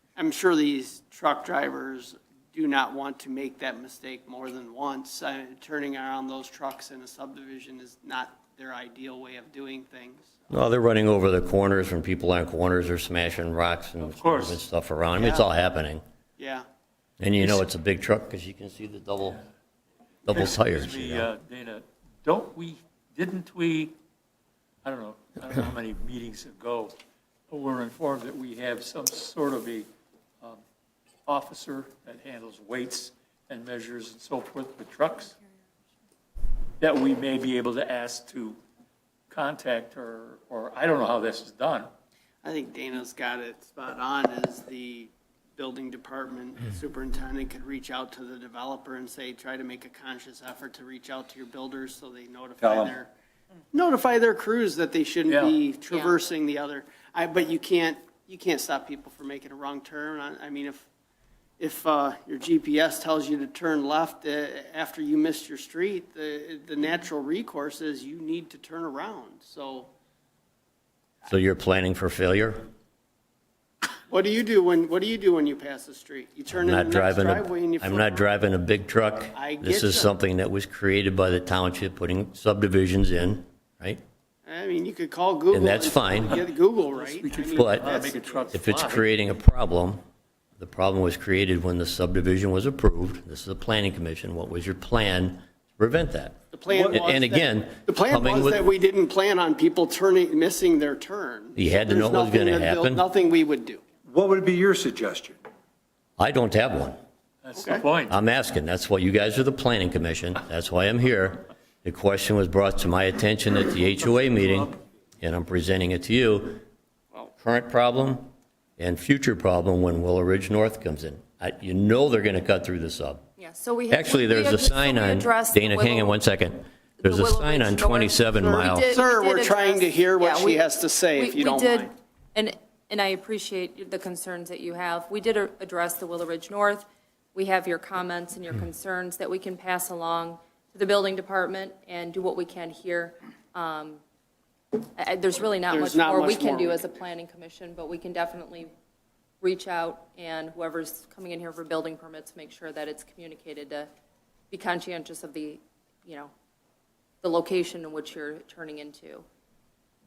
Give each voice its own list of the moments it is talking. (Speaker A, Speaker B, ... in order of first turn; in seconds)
Speaker A: 0.1-10.6, 15.1-15.5, 16.4-16.6, 42.4-53.1, 53.7-60.9, 61.6-69.9, 74.1-78.3, 79.3-80.1, 84.4-88.6, 96.5-103.8, 107.6-107.8, 128.4-131.9, 145.7-146.9
Speaker B: 10.5-16.0, 17.2-19.4, 20.2-21.3, 71.3-72.7, 76.5-84.0, 85.5-86.4, 87.5-87.9, 88.5-90.0, 90.6-96.4, 96.9-98.6, 101.5-103.0, 106.2-107.0, 108.1-116.6, 117.4-123.2, 123.9-128.9
Speaker C: 14.0-14.6, 20.3-23.9, 24.8-27.0, 27.5-29.9, 31.2-35.3, 36.8-38.6, 39.3-41.9, 55.3-55.6, 86.3-89.1, 107.4-108.2
Speaker D: 52.6-53.0, 96.7-97.0, 104.1-105.4
Speaker E: 55.9-56.1, 123.4-126.2, 127.0-144.0, 144.8-148.7, 149.4-153.9, 154.5-156.3, 157.2-159.2